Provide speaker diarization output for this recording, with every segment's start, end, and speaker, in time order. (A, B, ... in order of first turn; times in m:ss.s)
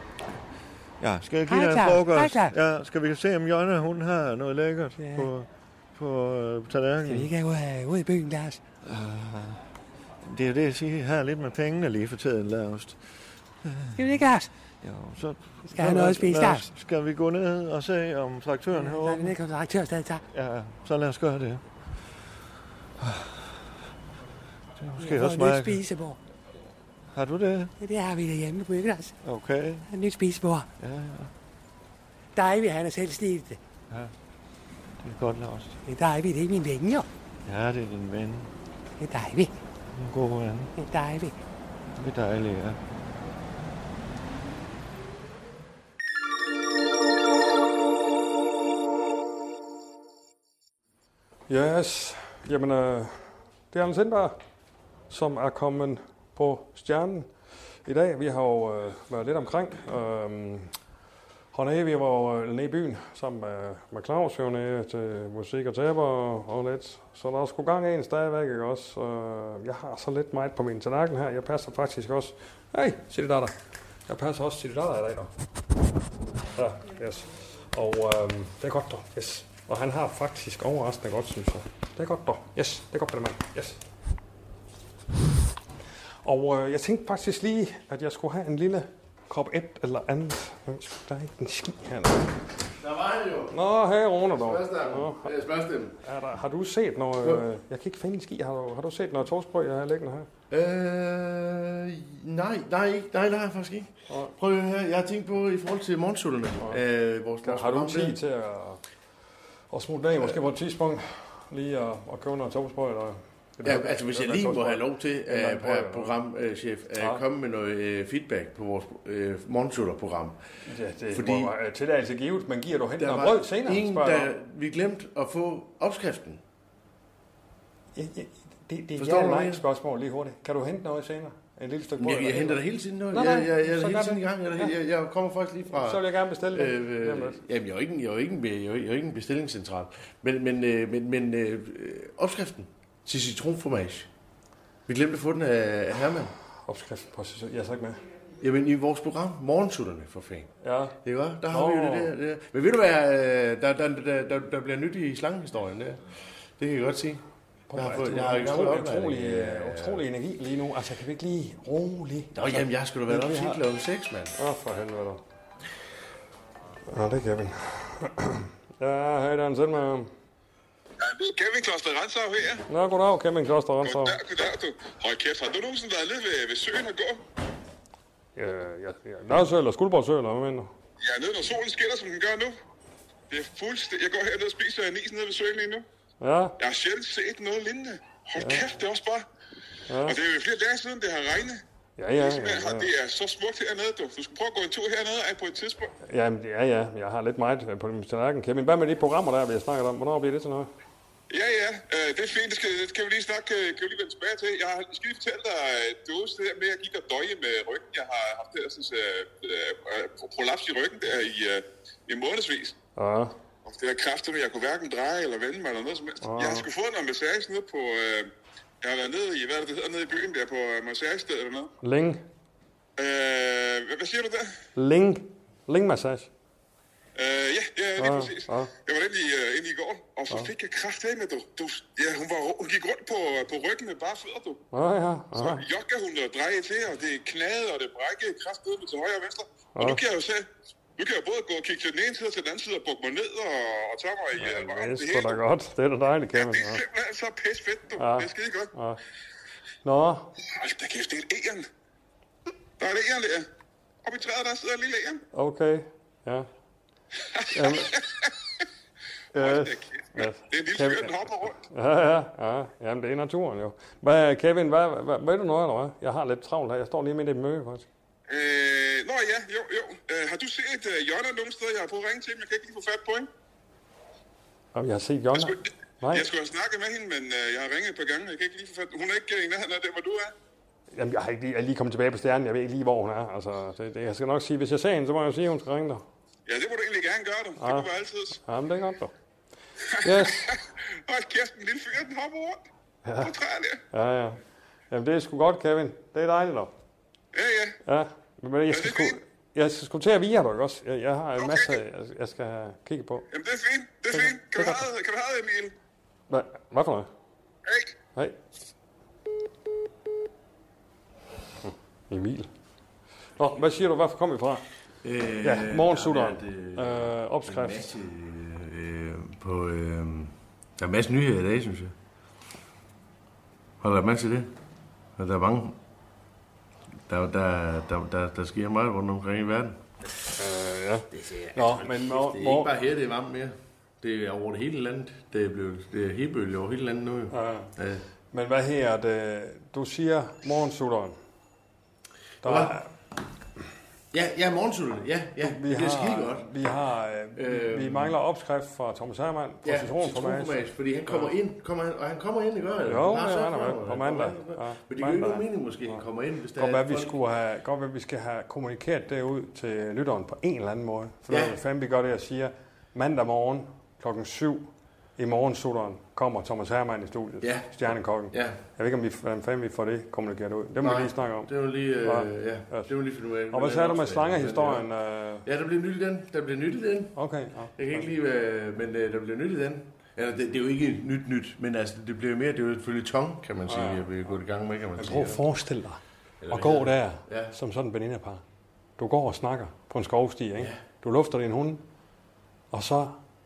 0:01.0-0:07.3 A
0:01.5-0:02.5 B
0:05.0-0:05.3 B
0:07.0-0:08.6 B
0:08.8-0:09.6 A
0:10.2-0:13.0 A
0:13.6-0:14.1 A
0:14.0-0:14.5 B
0:14.8-0:19.4 A
0:15.7-0:16.7 B
0:18.8-0:20.2 B
0:20.3-0:21.6 A
0:23.0-0:23.6 A
0:24.8-0:25.8 A
0:25.0-0:26.2 B
0:27.1-0:27.7 A
0:27.8-0:29.1 B
0:29.2-0:29.9 A
0:29.9-0:30.7 B
0:30.8-0:31.3 A
0:32.3-0:33.6 B
0:35.0-0:35.8 A
0:35.8-0:37.0 B
0:37.4-0:38.5 A
0:39.0-0:39.5 B
0:39.9-0:40.7 A
0:40.8-0:41.4 B
0:41.9-0:42.8 A
0:51.5-0:54.3 C
0:55.1-0:57.3 C
0:57.8-1:00.7 C
1:01.5-1:13.6 C
1:14.1-1:15.3 C
1:16.6-1:23.8 C
1:26.2-1:32.3 C
1:32.8-1:33.6 D
1:33.5-1:35.3 C
1:34.3-1:35.9 D
1:36.0-1:40.3 C
1:40.5-1:48.2 D
1:44.1-1:44.3 C
1:47.4-1:48.8 C
1:49.7-1:56.1 C
1:53.6-2:00.4 D
2:00.6-2:04.3 C
2:01.1-2:01.5 D
2:03.0-2:06.4 D
2:07.9-2:14.7 C
2:09.0-2:09.6 D
2:12.0-2:24.1 D
2:15.7-2:17.4 C
2:24.9-2:26.3 D
2:26.6-2:28.0 C
2:28.4-2:30.5 D
2:30.6-2:31.0 C
2:31.0-2:36.0 D
2:31.5-2:32.1 C
2:36.6-2:37.2 D
2:37.7-2:43.6 C
2:37.7-2:40.0 D
2:42.3-2:44.3 D
2:44.4-2:45.2 C
2:46.9-2:50.1 C
2:51.0-2:52.6 E
2:52.7-2:54.2 C
2:53.8-2:57.2 E
2:58.4-3:00.7 C
3:01.0-3:02.6 E
3:03.3-3:05.8 E
3:06.2-3:06.6 C
3:06.6-3:09.2 E
3:08.4-3:08.6 C
3:09.9-3:10.2 C
3:10.0-3:11.6 E
3:12.0-3:12.9 C
3:12.2-3:15.9 E
3:16.0-3:20.7 C
3:21.3-3:32.8 E
3:33.0-3:33.3 C
3:33.6-3:38.3 E
3:36.2-3:36.6 C
3:38.8-3:41.7 E
3:41.8-3:42.2 C
3:43.0-3:44.5 E
3:44.8-3:46.3 C
3:47.2-3:54.6 E
3:48.0-3:48.7 C
3:54.7-3:55.6 C
3:55.3-4:05.4 E
3:59.7-4:00.0 C
4:04.4-4:06.8 C
4:06.3-4:08.7 E
4:08.0-4:09.0 C
4:09.8-4:10.3 C
4:10.6-4:11.7 E
4:12.8-4:13.5 E
4:14.0-4:15.2 E
4:15.3-4:16.5 C
4:17.3-4:18.3 E
4:17.5-4:17.9 C
4:19.3-4:27.9 C
4:19.3-4:21.6 E
4:28.3-4:33.3 E
4:34.7-4:36.3 C
4:35.3-4:40.3 E
4:40.9-4:46.0 C
4:46.5-4:48.4 E
4:47.6-4:49.1 C
4:49.9-4:52.6 E
4:50.0-4:50.5 C
4:53.0-4:53.3 C
4:53.2-4:53.8 E
4:53.9-4:54.4 C
4:54.9-4:56.7 C
4:57.3-4:57.8 E
4:57.8-5:03.3 C
4:58.7-4:59.2 E
5:01.4-5:01.8 E
5:03.3-5:05.7 E
5:04.1-5:04.8 C
5:06.3-5:07.1 C
5:07.6-5:07.9 E
5:11.6-5:12.5 C
5:13.4-5:14.7 C
5:15.0-5:21.9 D
5:15.4-5:17.9 C
5:23.8-5:24.5 D
5:25.2-5:25.8 D
5:27.1-5:29.8 D
5:30.4-5:32.7 C
5:31.1-5:38.0 D
5:37.3-5:37.7 C
5:38.3-5:41.2 C
5:42.4-5:42.8 D
5:42.4-5:42.9 C
5:44.1-5:46.5 D
5:45.4-5:51.3 C
5:47.4-5:48.2 D
5:49.6-5:57.2 D
5:52.8-5:56.0 C
5:56.6-6:11.5 C
6:01.3-6:01.6 D
6:07.4-6:08.6 D
6:10.8-6:14.9 D
6:12.0-6:12.9 C
6:13.5-6:15.4 C
6:15.4-6:17.2 D
6:17.2-6:18.0 C
6:17.8-6:25.4 D
6:23.7-6:24.4 C
6:25.0-6:28.4 C
6:26.4-6:27.5 D
6:29.0-6:31.8 C
6:32.7-6:33.2 C